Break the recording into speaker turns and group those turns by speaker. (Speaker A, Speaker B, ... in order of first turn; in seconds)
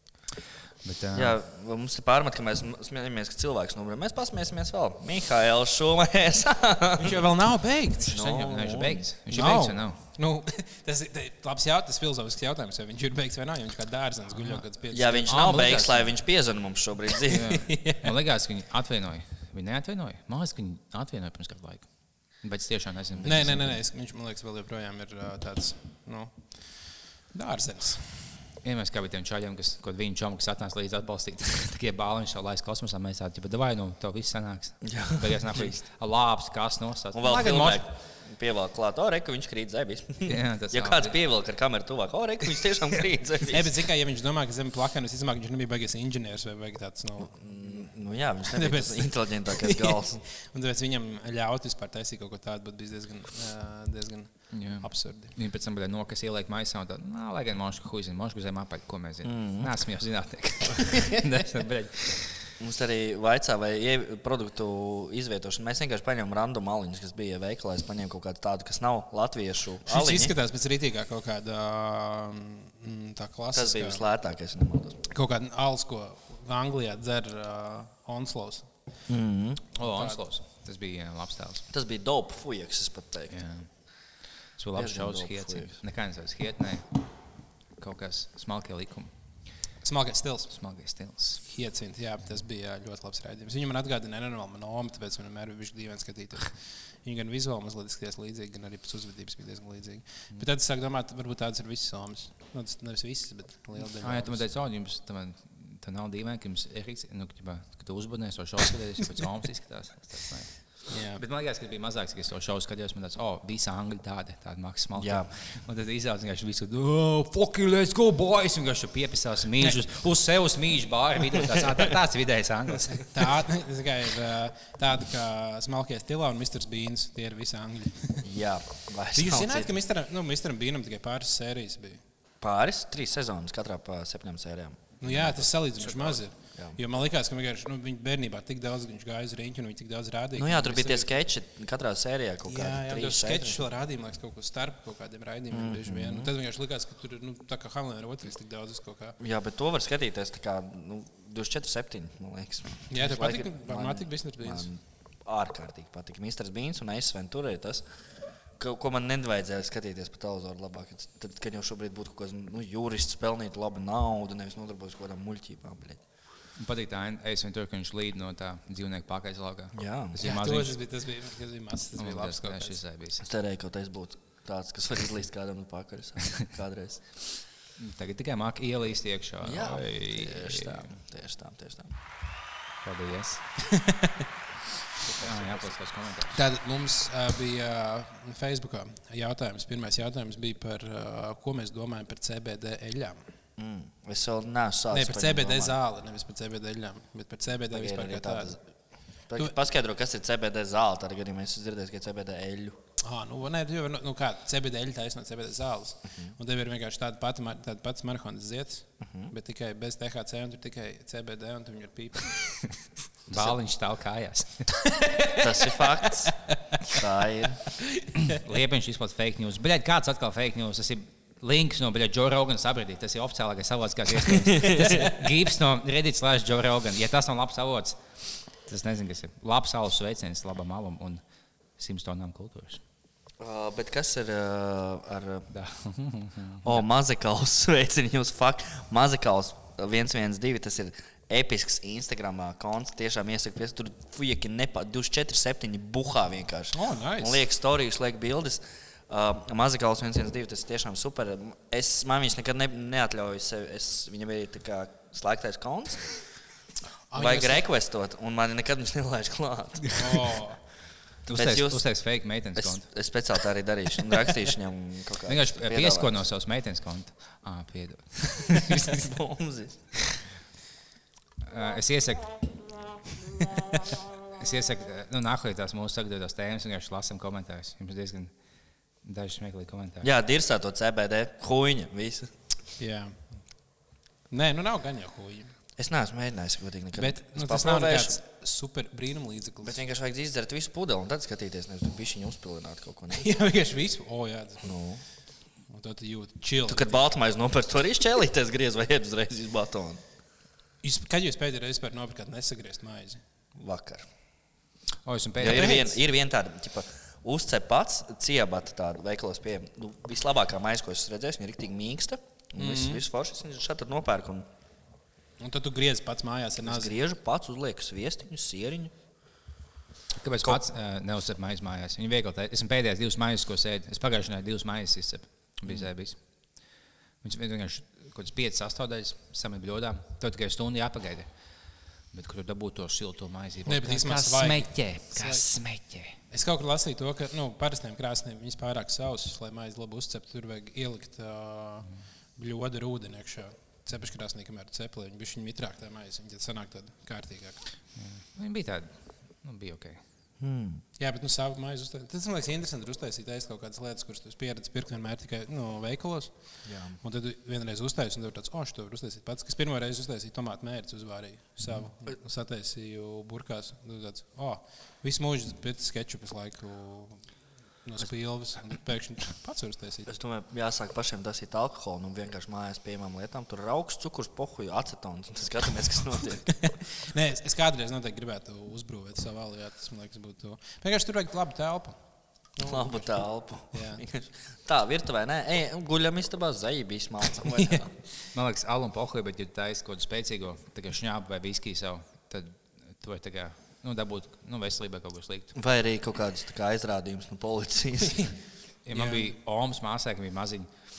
Speaker A: 0.8-1.4, 8.0-10.0, 15.3-16.1, 17.3-21.9, 22.4-23.8, 28.6-37.8, 40.2-41.1, 54.5-62.5, 79.8-81.6, 83.3-83.7, 84.5-86.9, 87.8-89.1, 90.5-91.4, 103.9-123.1, 166.6-170.7, 172.0-173.2, 177.8-180.8, 182.8-183.4, 185.2-186.4, 213.3-214.7, 218.2-228.0, 228.7-231.2, 231.8-232.8, 235.5-236.8, 261.2-262.8, 265.2-269.1, 271.4-272.3, 274.3-278.3, 279.0-280.1, 305.0-305.9, 320.1-326.2, 327.2-331.3, 332.1-336.1, 347.9-350.0, 388.3-395.5, 398.8-400.7
Speaker B: 1.1-7.2, 8.1-9.0, 14.9-17.6, 34.8-35.8, 37.1-43.7, 47.2-50.2, 59.2-59.7, 62.6-70.3, 73.5-75.0, 79.1-79.6, 81.7-83.4, 84.8-85.8, 115.0-115.3, 128.2-129.7, 132.4-136.8, 140.4-143.6, 145.5-146.3, 149.2-157.8, 158.6-166.0, 169.7-170.2, 173.2-177.3, 179.4-181.9, 185.0-185.7, 193.6-195.7, 197.7-198.6, 199.3-202.8, 209.0-209.3, 215.3-216.3, 216.9-217.6, 224.4-224.9, 233.4-235.5, 236.6-256.2, 257.1-260.0, 261.3-261.9, 262.6-266.2, 268.5-269.8, 280.0-282.3, 285.8-288.1, 289.6-293.3, 294.6-295.0, 296.7-300.0, 303.5-304.1, 305.4-314.5, 316.6-318.9, 350.4-350.8, 356.6-357.0, 370.1-376.6, 382.6-387.9, 395.5-398.3
Speaker C: 7.0-8.1, 9.3-15.5, 17.5-18.1, 23.2-28.2, 43.5-47.9, 48.5-55.3, 69.9-74.0, 75.1-78.7, 79.8-80.2, 89.8-90.5, 91.4-104.5, 110.9-111.2, 123.1-128.2, 129.1-132.0, 135.0-141.1, 142.5-149.2, 152.9-154.7, 170.2-172.8, 186.3-193.2, 194.9-198.6, 203.0-212.6, 214.9-216.5, 246.7-247.4, 257.1-257.6, 259.9-260.6, 282.8-283.3, 284.3-285.5, 287.0-289.8, 293.1-294.8, 295.7-296.9, 300.8-303.2, 305.4-305.9, 312.6-313.0, 315.4-316.9, 333.6-335.4, 336.3-347.6, 351.0-367.3, 367.8-370.1, 376.6-382.0, 382.6-384.0, 387.6-387.8, 398.9-399.3